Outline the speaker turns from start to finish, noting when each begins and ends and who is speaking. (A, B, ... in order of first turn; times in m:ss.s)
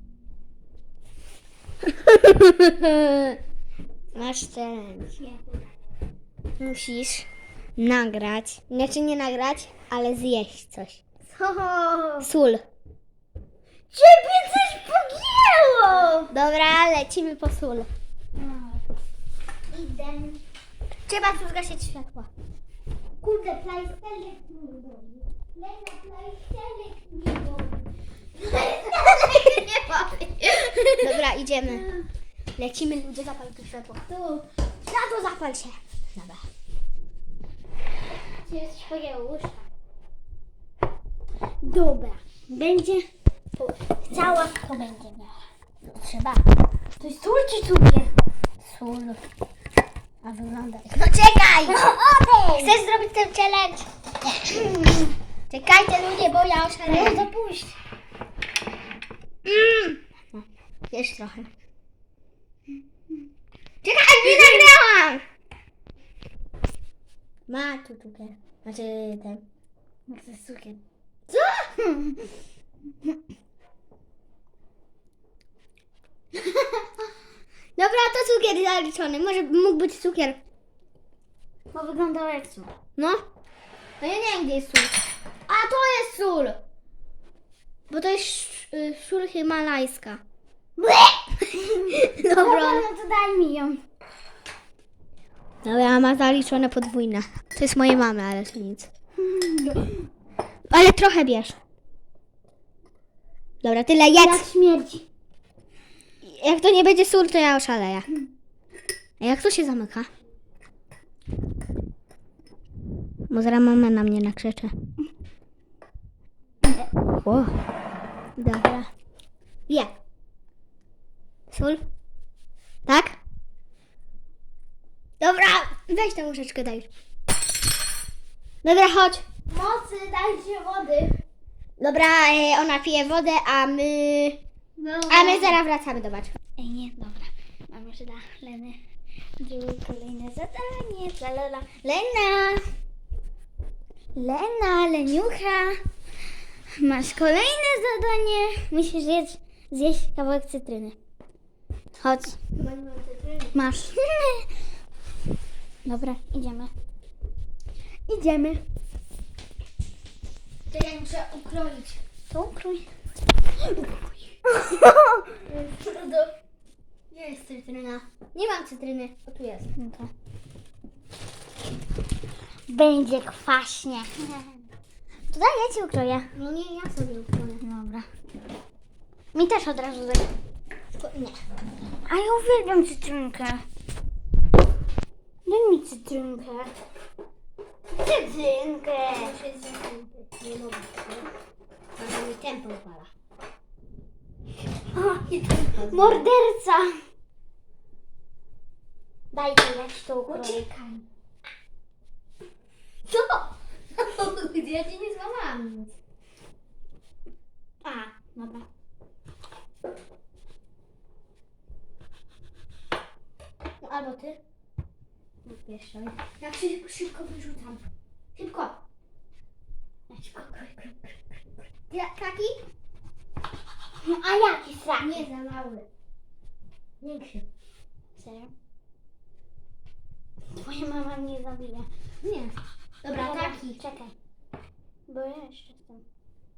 0:01.8-0:03.4 A
0:04.1-0:05.2 A
0:06.6-0:11.0 A
0:11.3-0:12.3 B
0:12.2-0:12.6 A
0:13.9-0:16.3 B
0:16.3-0:17.9 A
0:18.3-0:18.8 B
0:19.7-0:20.4 B
0:21.1-0:22.3 A
0:23.2-0:32.0 B
0:31.0-0:31.8 A
0:32.6-0:34.1 A
0:34.1-0:35.5 B
0:35.0-0:36.4 A
0:38.4-0:39.7 B
0:41.6-0:43.0 B
0:44.1-0:45.4 B
0:45.8-0:46.4 A
0:47.0-0:48.1 B
0:48.6-0:49.2 A
0:50.2-0:50.8 B
0:50.7-0:51.8 A
0:51.6-0:52.8 B
0:52.6-0:53.9 A
0:54.3-0:55.1 B
0:55.5-0:57.2 A
0:56.8-0:57.8 B
0:59.4-1:01.5 A
1:03.8-1:05.2 A
1:04.2-1:04.7 B
1:07.5-1:09.4 A
1:10.1-1:10.8 B
1:11.3-1:11.6 A
1:11.8-1:12.3 B
1:17.8-1:20.4 A
1:21.7-1:22.7 B
1:23.0-1:23.2 A
1:24.0-1:25.0 A
1:25.5-1:26.2 A
1:25.8-1:26.5 B
1:27.9-1:30.2 A
1:30.8-1:33.8 B
1:31.8-1:32.8 A
1:35.6-1:38.9 A
1:39.2-1:40.0 B
1:40.7-1:41.6 A
1:43.6-1:44.4 A
1:44.1-1:45.0 B
1:46.2-1:48.1 A
1:49.2-1:50.1 A
1:53.3-1:54.7 A
1:56.6-1:56.9 B
1:57.2-1:57.5 A
1:58.4-1:58.9 A
2:01.5-2:01.8 A
2:02.8-2:03.2 A
2:05.2-2:06.9 A
2:08.6-2:09.2 A
2:09.5-2:11.2 B
2:11.8-2:14.4 A
2:14.8-2:15.6 B
2:15.1-2:16.4 A
2:16.6-2:18.8 B
2:19.4-2:22.6 B
2:24.1-2:25.8 B
2:26.7-2:31.0 B
2:32.0-2:32.4 B
2:32.5-2:33.6 A
2:33.5-2:34.5 B
2:35.8-2:36.7 B
2:38.1-2:38.6 A
2:40.7-2:42.0 A
2:42.3-2:42.9 B
2:43.7-2:44.1 B
2:45.4-2:46.3 A
2:47.1-2:49.7 A
2:49.8-2:50.1 B
2:52.7-2:54.4 B
2:55.3-2:56.3 B
2:56.3-2:57.6 A
2:57.6-2:58.1 B
2:59.3-3:00.3 B
3:00.9-3:01.4 A
3:02.0-3:03.6 B
3:05.4-3:06.7 B
3:07.9-3:09.3 B
3:09.1-3:11.3 A
3:12.0-3:13.1 A
3:14.9-3:17.0 B
3:15.3-3:16.3 A
3:19.3-3:20.7 B
3:20.3-3:21.0 A
3:23.1-3:23.4 A
3:24.0-3:25.9 A
3:27.8-3:28.6 B
3:33.8-3:34.4 A
3:35.5-3:36.1 B
3:36.2-3:37.8 A
3:38.3-3:38.8 A
3:40.1-3:41.3 B
3:41.9-3:42.6 A
3:44.0-3:45.2 B
3:45.0-3:45.9 A
3:47.0-3:47.4 A
3:48.1-3:48.5 B
3:50.5-3:51.9 B
3:52.2-3:53.8 A
3:53.1-3:54.1 B
3:55.1-3:56.0 B